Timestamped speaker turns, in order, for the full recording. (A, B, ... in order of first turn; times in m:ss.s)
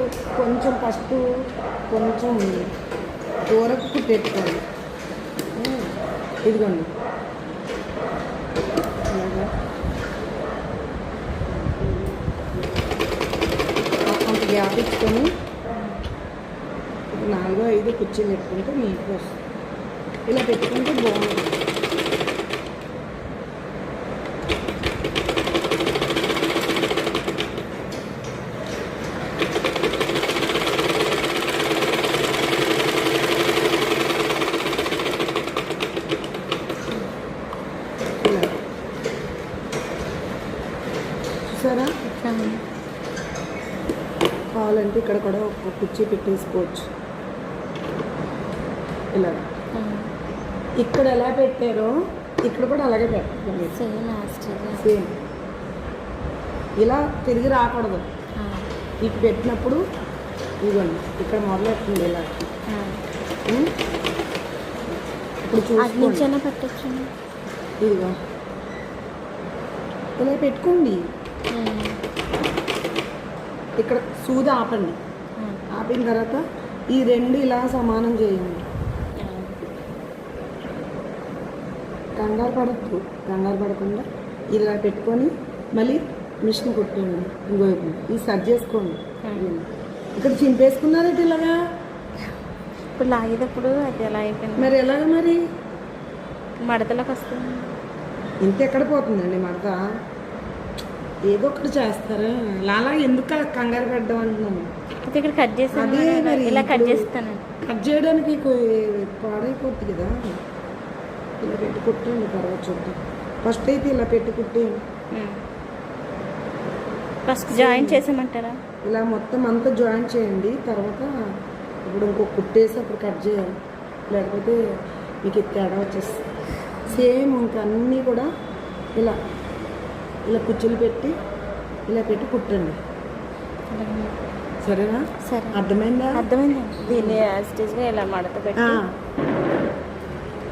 0:00.3-0:01.2 A
0:01.9-0:02.6 A
0:03.5-0:04.6 A
0:05.6-0:05.9 A
0:06.5-0:06.9 A
0:09.1-0:09.5 A
0:14.1-0:15.3 A
0:15.7-0:16.0 B
0:17.1-0:19.4 A
0:20.3-0:21.6 A
0:38.2-0:38.5 A
0:41.5-0:41.9 A
0:42.1-0:42.6 B
0:44.5-0:46.9 A
0:49.1-0:49.4 A
0:49.8-0:50.1 B
0:50.8-0:53.8 A
0:53.7-0:55.0 B
0:54.8-0:55.1 A
0:56.8-0:58.1 A
0:58.4-0:58.7 B
0:59.0-0:59.8 A
1:00.6-1:02.5 A
1:02.7-1:03.0 B
1:05.4-1:06.3 A
1:05.8-1:07.1 B
1:07.8-1:08.2 A
1:10.2-1:11.0 A
1:11.5-1:12.0 B
1:13.8-1:15.0 A
1:15.4-1:15.6 B
1:15.7-1:18.7 A
1:19.2-1:19.6 B
1:22.2-1:31.6 A
1:29.2-1:29.5 B
1:33.0-1:34.7 B
1:34.6-1:35.4 A
1:36.6-1:37.7 B
1:38.4-1:39.8 A
1:41.3-1:44.7 A
1:45.1-1:47.4 B
1:45.7-1:47.1 A
1:47.6-1:50.2 A
1:51.4-1:54.8 A
1:55.1-1:55.4 B
1:57.3-1:58.6 B
1:57.5-1:58.0 A
1:58.8-2:01.1 A
2:01.8-2:03.5 A
2:04.1-2:04.6 A
2:05.2-2:06.2 A
2:06.9-2:08.3 A
2:10.3-2:11.2 A
2:11.9-2:12.8 A
2:13.7-2:14.2 B
2:14.6-2:16.2 A
2:15.3-2:15.6 B
2:16.2-2:18.8 B
2:16.8-2:17.3 A
2:18.6-2:18.9 A